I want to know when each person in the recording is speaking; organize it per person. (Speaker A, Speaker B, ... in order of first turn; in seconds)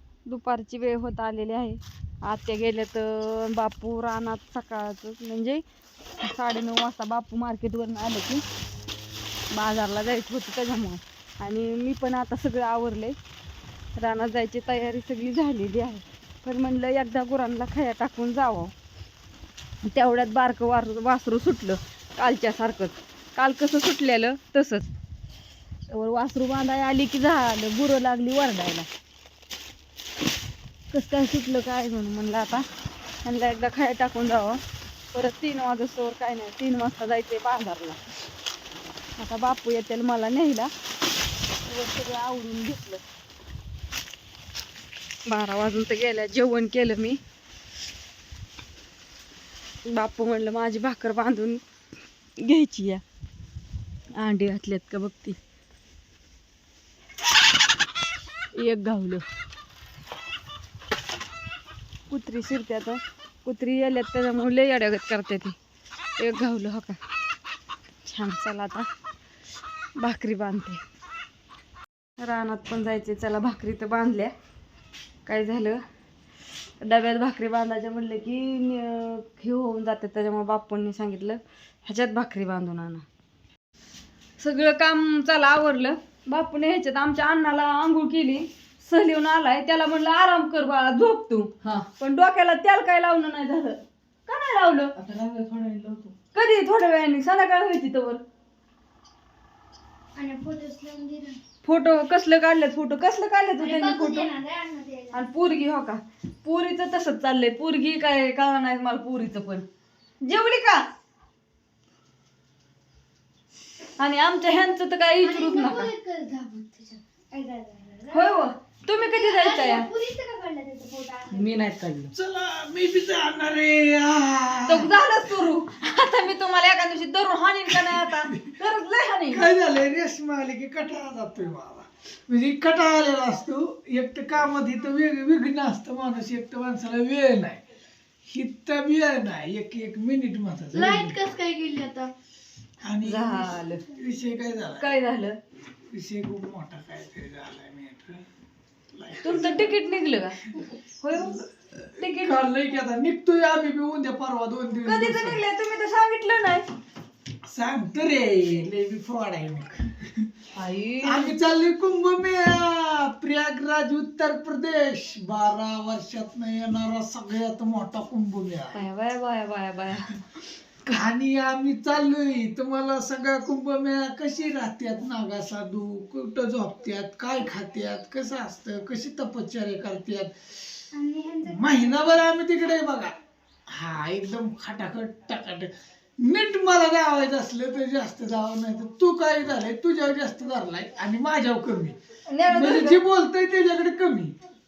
Speaker A: 0.3-5.6, 6.2-8.4, 9.5-13.2, 14.0-18.7, 19.8-24.9, 25.9-28.9, 30.9-32.6, 33.2-34.6, 35.1-38.0, 39.2-40.7, 41.7-43.0, 45.3-47.2, 49.9-51.6, 52.4-53.0, 54.1-55.4, 58.6-59.2, 62.1-65.5, 66.2-67.0, 68.0-68.9, 70.0-70.8, 72.2-74.3, 75.3-75.8, 76.8-83.0, 84.4-94.9, 96.3-98.2, 101.6-104.3, 105.1-109.6, 110.2-110.9, 114.0-115.9, 118.1-119.9, 124.7-129.5, 143.0-143.8, 144.8-145.4, 149.2-150.4, 151.0-151.4, 152.0-152.4, 154.8-156.7, 160.6-161.3, 168.7-170.2, 192.3-193.0
Speaker B: 95.0-96.2, 121.3-122.1
Speaker C: 100.2-101.4, 103.6-105.2, 115.2-118.3, 119.0-121.4, 140.7-142.1, 180.9-182.0
Speaker D: 122.1-124.9, 127.7-128.6, 129.3-137.6, 138.3-141.2, 142.8-144.9, 145.9-148.2, 148.9-149.8, 151.2-155.4, 157.5-160.3, 161.0-168.8, 170.9-180.3, 181.4-183.1, 183.7-185.7, 186.2-191.9, 192.5-194.3